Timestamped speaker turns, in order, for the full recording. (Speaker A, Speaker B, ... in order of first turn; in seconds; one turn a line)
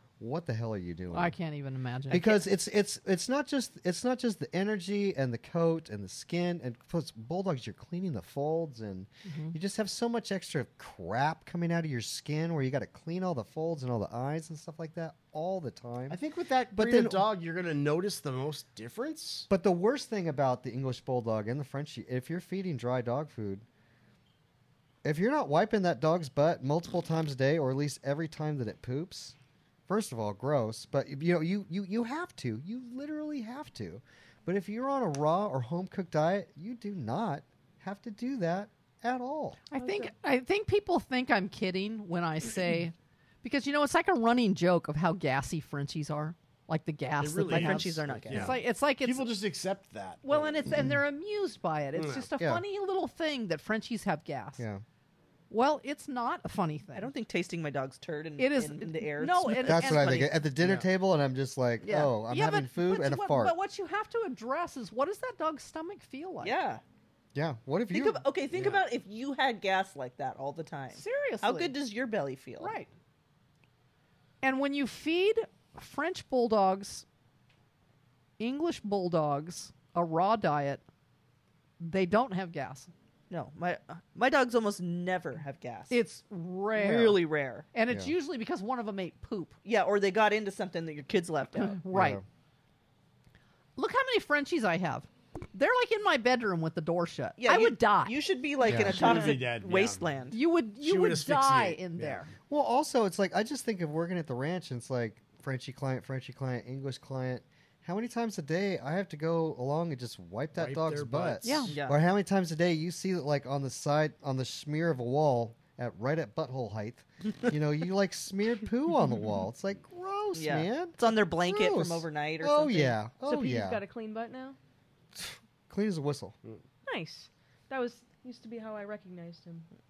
Speaker A: 0.2-1.3
Speaker B: 1.1-2.4
Speaker A: 2.1-16.2
Speaker B: 9.2-9.5
Speaker C: 16.1-19.5
Speaker A: 16.7-17.3
Speaker A: 19.5-23.6
Speaker A: 25.0-29.3
Speaker A: 29.9-39.6
Speaker B: 39.7-49.3
Speaker D: 39.8-40.1
Speaker C: 47.2-50.6
Speaker E: 47.5-48.6
Speaker B: 50.2-54.6
Speaker C: 51.9-52.3
Speaker A: 52.4-52.6
Speaker A: 54.6-54.8
Speaker B: 55.5-57.1
Speaker E: 56.9-60.3
Speaker B: 58.4-60.3
Speaker A: 59.6-63.5
Speaker C: 60.6-60.9
Speaker E: 61.8-62.1
Speaker B: 62.3-66.5
Speaker E: 66.4-66.8
Speaker A: 67.3-68.2
Speaker E: 67.9-72.7
Speaker C: 68.5-68.8
Speaker B: 70.9-71.7
Speaker B: 72.6-72.9
Speaker B: 74.4-77.0
Speaker B: 78.4-80.8
Speaker B: 81.8-82.9
Speaker E: 83.3-86.0
Speaker B: 85.9-87.2
Speaker E: 86.7-87.7
Speaker B: 87.7-89.5
Speaker E: 89.6-91.8
Speaker B: 91.5-92.2
Speaker A: 91.9-92.2
Speaker B: 93.8-98.2
Speaker E: 97.4-100.4
Speaker A: 98.6-99.1
Speaker C: 98.7-100.1
Speaker B: 100.3-102.3
Speaker C: 100.8-102.2
Speaker A: 102.5-123.8
Speaker C: 110.5-111.8
Speaker B: 111.4-111.7
Speaker E: 111.7-112.0
Speaker E: 120.3-123.0
Speaker D: 123.2-124.6
Speaker A: 125.1-126.3
Speaker D: 126.8-129.7